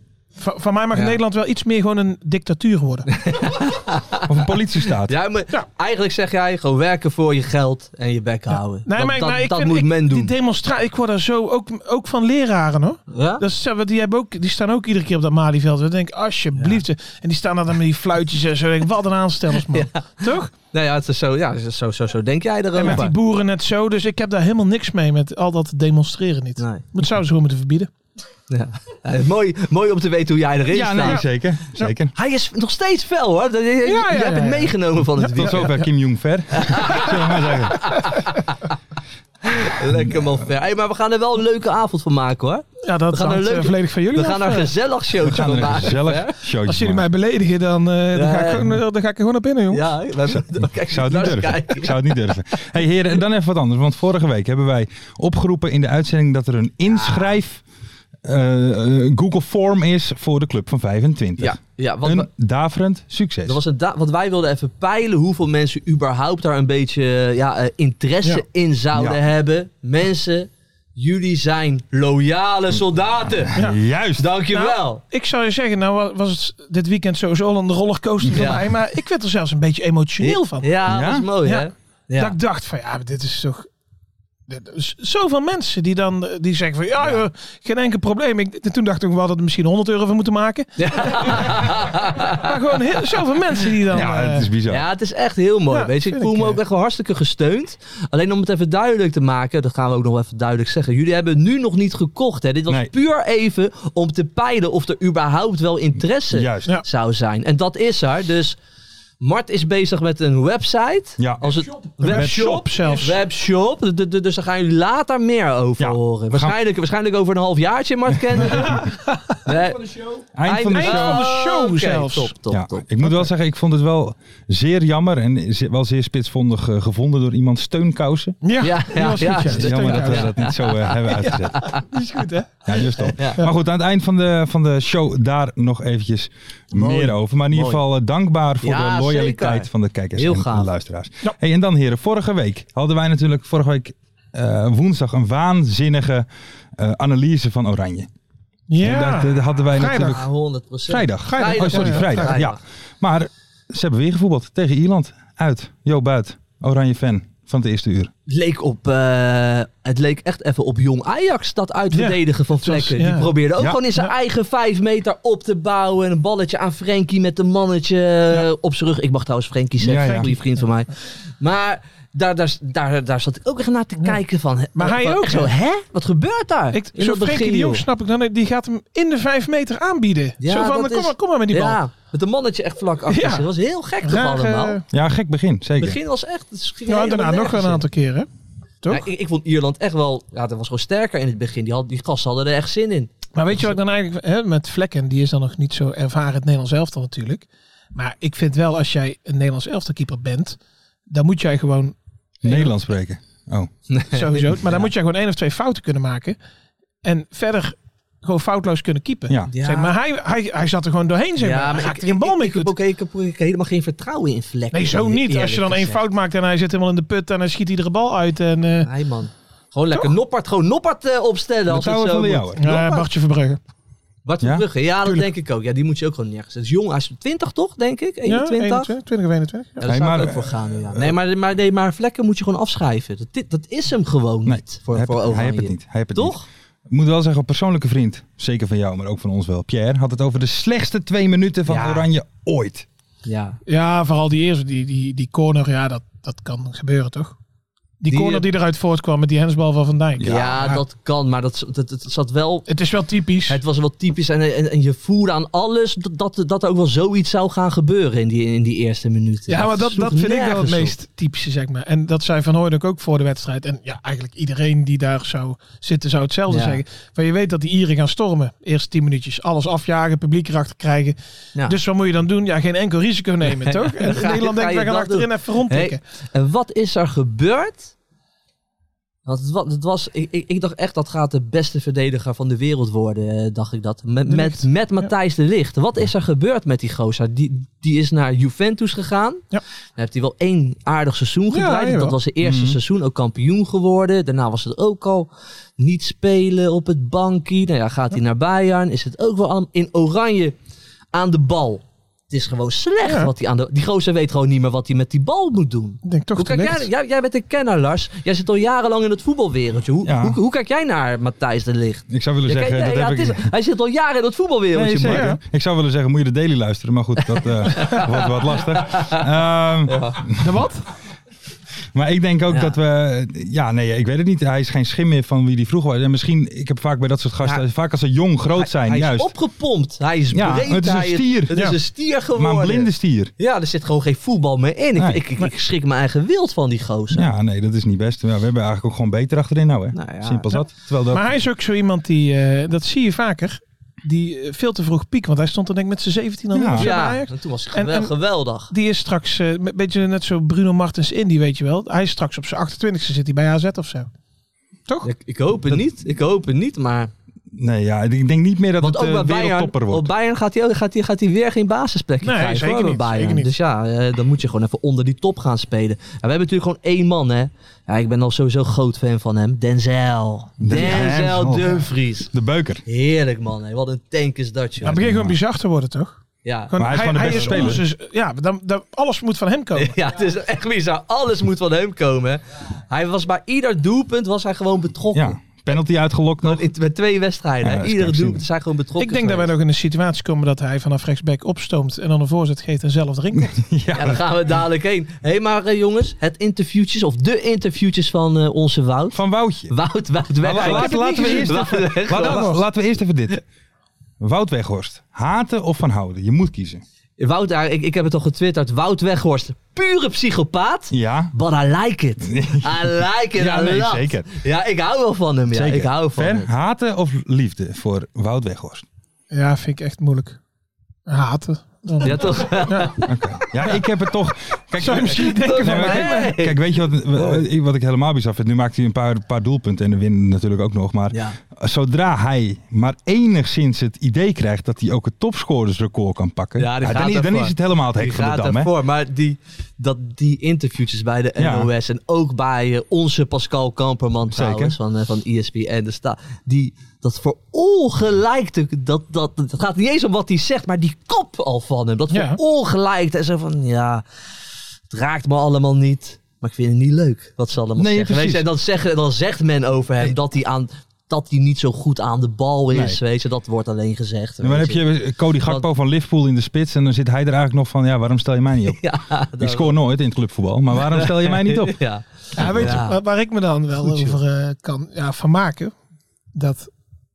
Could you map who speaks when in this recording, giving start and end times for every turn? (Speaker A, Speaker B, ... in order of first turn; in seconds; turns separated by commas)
Speaker A: 0.4-3.1, Speaker B: 0.9-1.2, Speaker B: 3.1-4.3, Speaker C: 4.3-5.1, Speaker B: 5.0-10.3, Speaker A: 8.8-20.5, Speaker B: 13.1-13.4, Speaker B: 19.7-23.1, Speaker A: 22.8-27.9, Speaker B: 26.6-26.8, Speaker B: 28.5-31.2, Speaker C: 30.7-32.1, Speaker B: 32.1-35.7, Speaker A: 33.9-34.7, Speaker A: 35.4-35.7, Speaker C: 35.4-38.1, Speaker B: 36.5-38.6, Speaker B: 39.4-46.3, Speaker C: 40.0-40.4, Speaker A: 42.8-44.7, Speaker A: 45.3-45.7, Speaker C: 45.3-47.0, Speaker A: 46.7-49.9, Speaker B: 48.1-48.7, Speaker B: 49.7-52.3, Speaker C: 50.3-57.6, Speaker B: 56.9-57.3, Speaker C: 58.2-63.6, Speaker B: 61.4-62.3, Speaker B: 63.5-73.5, Speaker C: 69.0-69.2, Speaker C: 73.3-74.3, Speaker A: 73.5-73.8, Speaker B: 74.2-75.0, Speaker A: 74.5-80.7, Speaker B: 78.3-78.6, Speaker B: 80.2-82.3, Speaker C: 80.9-81.3, Speaker A: 81.4-83.7, Speaker A: 84.5-94.5, Speaker B: 90.8-92.5, Speaker C: 93.9-94.8, Speaker B: 94.7-108.6, Speaker A: 95.7-96.6, Speaker C: 106.3-106.7, Speaker B: 109.2-118.8, Speaker C: 111.2-111.6, Speaker A: 112.0-113.2, Speaker C: 115.8-116.6, Speaker C: 118.1-118.9, Speaker A: 118.5-119.4, Speaker B: 119.4-122.9, Speaker C: 120.3-121.2, Speaker A: 120.7-122.3, Speaker C: 122.5-128.4, Speaker A: 128.4-130.4, Speaker B: 128.6-131.8, Speaker C: 129.1-131.6, Speaker A: 131.2-132.5, Speaker C: 132.7-148.1, Speaker B: 132.7-133.4, Speaker B: 136.7-137.8, Speaker B: 138.6-140.7, Speaker A: 148.7-150.2, Speaker C: 148.8-150.2, Speaker B: 149.8-152.6, Speaker C: 150.9-158.1, Speaker A: 151.3-152.4, Speaker B: 158.3-177.8, Speaker A: 161.9-163.3, Speaker C: 169.8-170.3, Speaker A: 169.9-170.7, Speaker A: 174.8-175.5, Speaker A: 176.7-181.8, Speaker B: 180.4-184.8, Speaker A: 183.1-183.5, Speaker A: 184.0-184.8, Speaker C: 184.9-186.0, Speaker B: 185.8-187.8, Speaker A: 186.9-188.3, Speaker B: 188.9-193.1, Speaker A: 193.3-200.6, Speaker A: 201.1-202.7, Speaker C: 202.4-203.7, Speaker B: 203.9-204.9, Speaker A: 204.1-206.4, Speaker A: 207.0-212.7, Speaker B: 209.5-209.9, Speaker B: 211.4-216.0, Speaker A: 214.7-218.9, Speaker B: 218.8-223.1, Speaker C: 221.7-222.6, Speaker A: 222.6-223.6, Speaker B: 224.2-228.9, Speaker C: 224.4-225.3, Speaker A: 228.3-229.9, Speaker B: 229.8-236.5, Speaker C: 229.8-231.2, Speaker C: 234.5-236.4, Speaker C: 236.9-242.9, Speaker B: 241.7-242.1, Speaker B: 243.2-243.6, Speaker A: 243.7-247.4, Speaker A: 248.0-250.8, Speaker B: 248.1-248.5, Speaker C: 250.2-250.5, Speaker B: 250.2-252.7, Speaker A: 252.7-253.6, Speaker B: 253.5-260.9, Speaker A: 259.5-276.0, Speaker B: 266.5-266.8, Speaker B: 273.4-277.9, Speaker B: 279.3-289.4, Speaker A: 284.3-285.1, Speaker B: 290.0-300.6, Speaker A: 291.5-292.2, Speaker C: 292.4-292.8, Speaker B: 301.1-315.3, Speaker A: 303.0-303.3, Speaker A: 306.0-306.9, Speaker C: 310.1-310.4, Speaker C: 312.1-313.5, Speaker C: 314.7-320.5, Speaker A: 315.1-315.4, Speaker B: 317.6-319.2, Speaker B: 319.9-320.2, Speaker A: 320.4-320.9, Speaker C: 321.9-329.3, Speaker B: 322.5-322.8, Speaker B: 328.5-337.3, Speaker C: 330.3-331.6, Speaker C: 332.4-333.3, Speaker C: 335.0-335.2, Speaker C: 337.1-341.4, Speaker B: 339.9-340.5, Speaker A: 341.1-348.1, Speaker C: 346.5-346.9, Speaker B: 346.8-348.7, Speaker A: 348.7-354.1, Speaker B: 355.0-357.1, Speaker C: 357.5-360.1, Speaker B: 358.8-372.3, Speaker A: 362.2-363.5, Speaker C: 370.6-372.8, Speaker B: 372.9-375.0, Speaker A: 374.8-376.2, Speaker C: 374.9-375.4, Speaker B: 376.4-377.8, Speaker A: 376.7-380.0, Speaker C: 376.8-377.8, Speaker B: 379.8-385.4, Speaker C: 385.1-386.7, Speaker B: 386.4-389.5, Speaker C: 387.6-388.4, Speaker A: 389.0-393.6, Speaker C: 393.4-394.2, Speaker B: 393.9-402.6, Speaker C: 399.1-399.7, Speaker C: 400.4-403.4, Speaker A: 400.6-402.6, Speaker C: 404.2-406.8, Speaker B: 407.2-416.5, Speaker C: 410.9-411.3, Speaker C: 412.2-414.4, Speaker C: 415.5-418.9, Speaker A: 419.3-420.4, Speaker A: 421.1-423.0, Speaker B: 422.0-423.1, Speaker C: 423.1-438.7, Speaker A: 424.8-426.3, Speaker B: 425.2-426.6, Speaker B: 427.1-427.4, Speaker B: 431.1-431.4, Speaker B: 436.6-454.0, Speaker C: 441.4-441.7, Speaker C: 444.3-444.8, Speaker A: 452.1-452.4, Speaker B: 454.9-464.8, Speaker C: 457.8-458.5, Speaker C: 462.7-463.0, Speaker C: 464.4-468.8, Speaker B: 468.7-469.8, Speaker C: 469.4-471.8, Speaker B: 470.8-473.0, Speaker A: 472.4-475.7, Speaker C: 472.4-472.8, Speaker B: 473.8-474.2, Speaker A: 476.4-476.7